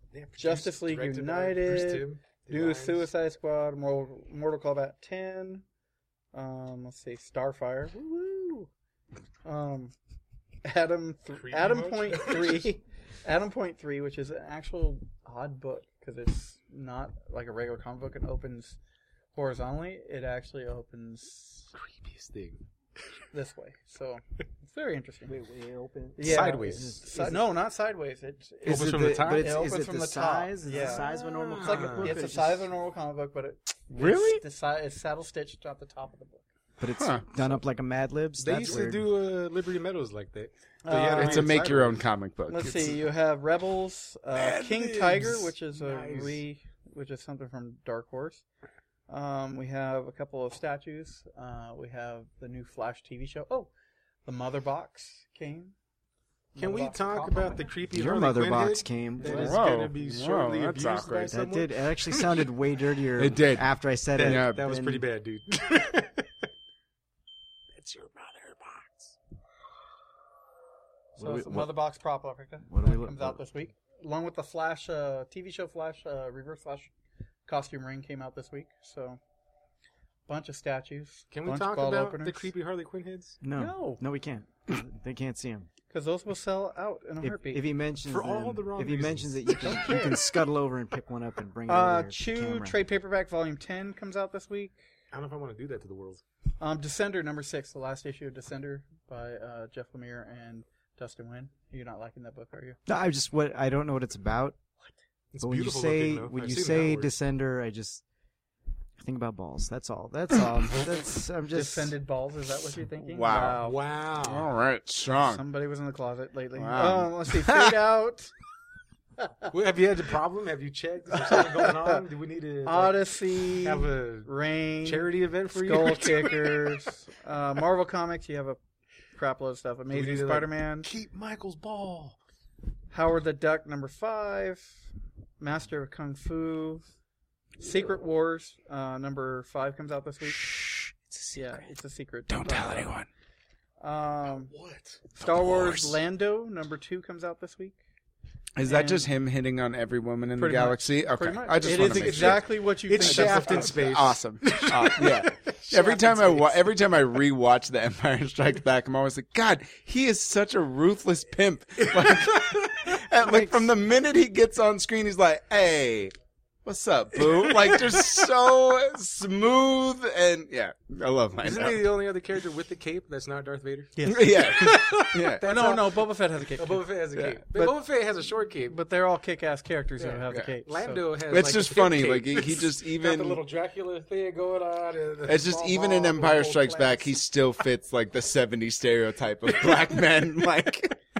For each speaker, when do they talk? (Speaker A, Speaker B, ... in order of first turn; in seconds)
Speaker A: 0.1-3.1, 11.4-12.7, 21.7-22.6, 26.2-27.0, 28.6-29.7, 30.7-32.1, 38.4-42.0, 44.4-46.4, 56.6-62.4, 64.1-66.3, 67.7-69.2, 81.3-83.4, 88.1-90.3, 95.1-96.2, 105.3-107.1, 113.6-114.5, 119.5-124.3, 124.8-126.8, 129.9-132.2, 144.5-145.0, 151.6-156.4, 171.4-176.0, 176.6-178.8, 180.0-187.1
Speaker B: 0.4-5.6, 6.3-8.7, 9.4-9.9, 10.6-18.8, 19.3-21.7, 23.3-25.3, 26.1-36.4, 40.8-41.5, 42.5-48.4, 49.1-53.7, 54.2-55.7, 56.5-57.6, 71.2-76.9, 77.5-79.2, 80.3-82.5, 83.5-84.0, 85.9-87.7, 91.7-94.8, 96.6-102.8, 111.5-113.8, 115.2-118.3, 121.1-121.9, 122.6-128.6, 129.1-130.9, 132.9-134.8, 135.4-136.9, 137.6-140.5, 141.3-142.9, 143.8-144.5, 145.1-147.8, 148.6-149.1, 150.4-153.9, 174.0-177.8, 178.7-181.0
Speaker C: 25.3-27.4, 28.6-32.7, 36.8-39.1, 57.9-59.6, 61.3-65.0, 71.2-71.7, 72.7-73.4, 83.4-85.7, 87.2-92.8, 102.9-104.6, 105.4-108.0, 109.0-111.9, 163.2-163.6
Speaker D: 33.9-34.4, 37.0-37.2, 41.1-43.0, 59.2-61.3, 63.2-63.6, 64.2-64.6, 113.1-113.6, 114.2-115.4, 116.5-117.7, 142.3-143.1, 145.2-145.9, 148.6-152.5, 153.0-166.1, 166.6-171.9, 174.1-175.4, 181.3-183.4, 185.2-191.0